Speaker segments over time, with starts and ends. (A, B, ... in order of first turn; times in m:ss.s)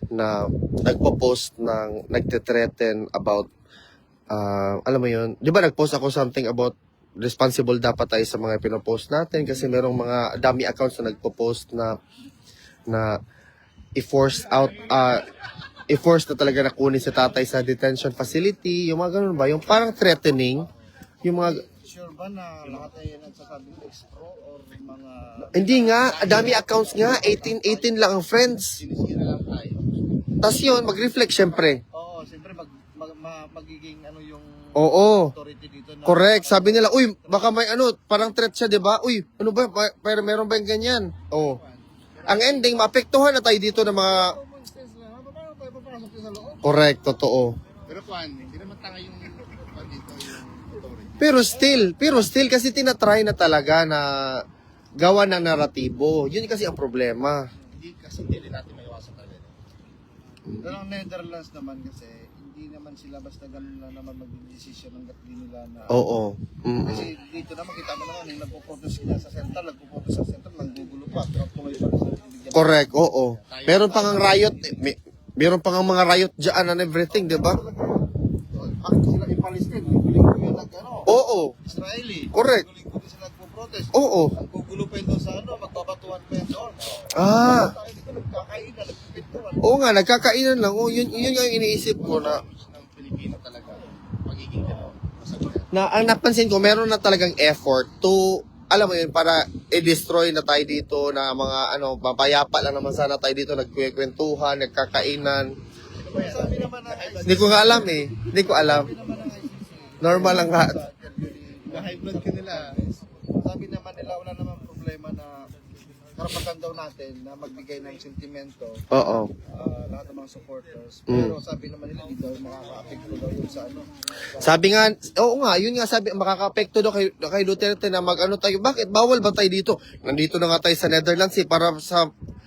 0:00.1-0:03.5 A
0:04.3-0:11.9 A
0:14.0-0:15.2 A
0:15.9-0:20.7 A
0:21.2-0:21.6 A
0:21.6-0:26.4 B
0:25.5-0:28.8 A
0:28.9-0:29.6 B
0:30.4-0:31.8 A
0:31.9-0:36.9 B
0:34.8-0:35.3 A
0:36.0-0:41.6 A
0:42.3-0:44.4 A
0:44.0-0:46.6 B
0:46.6-0:47.5 A
0:47.9-0:48.8 B
0:48.1-0:49.2 C
0:49.5-0:50.7 B
0:49.9-0:50.4 C
0:51.2-0:54.4 A
0:55.0-0:57.4 A
0:57.9-0:59.5 C
1:00.6-1:06.0 B
1:05.9-1:07.1 A
1:06.8-1:12.8 B
1:12.5-1:17.6 A
1:13.6-1:14.6 B
1:17.2-1:29.7 B
1:21.1-1:21.6 A
1:22.3-1:22.7 A
1:23.9-1:24.3 A
1:27.2-1:27.7 A
1:29.6-1:32.4 A
1:32.6-1:33.7 C
1:34.3-1:34.9 C
1:35.7-1:45.5 A
1:46.1-1:55.5 B
1:47.2-1:48.9 A
1:50.0-1:50.7 A
1:51.9-1:52.6 C
1:56.2-1:58.8 B
1:58.9-1:59.3 A
1:59.4-2:03.9 B
2:01.1-2:01.4 A
2:04.4-2:12.1 A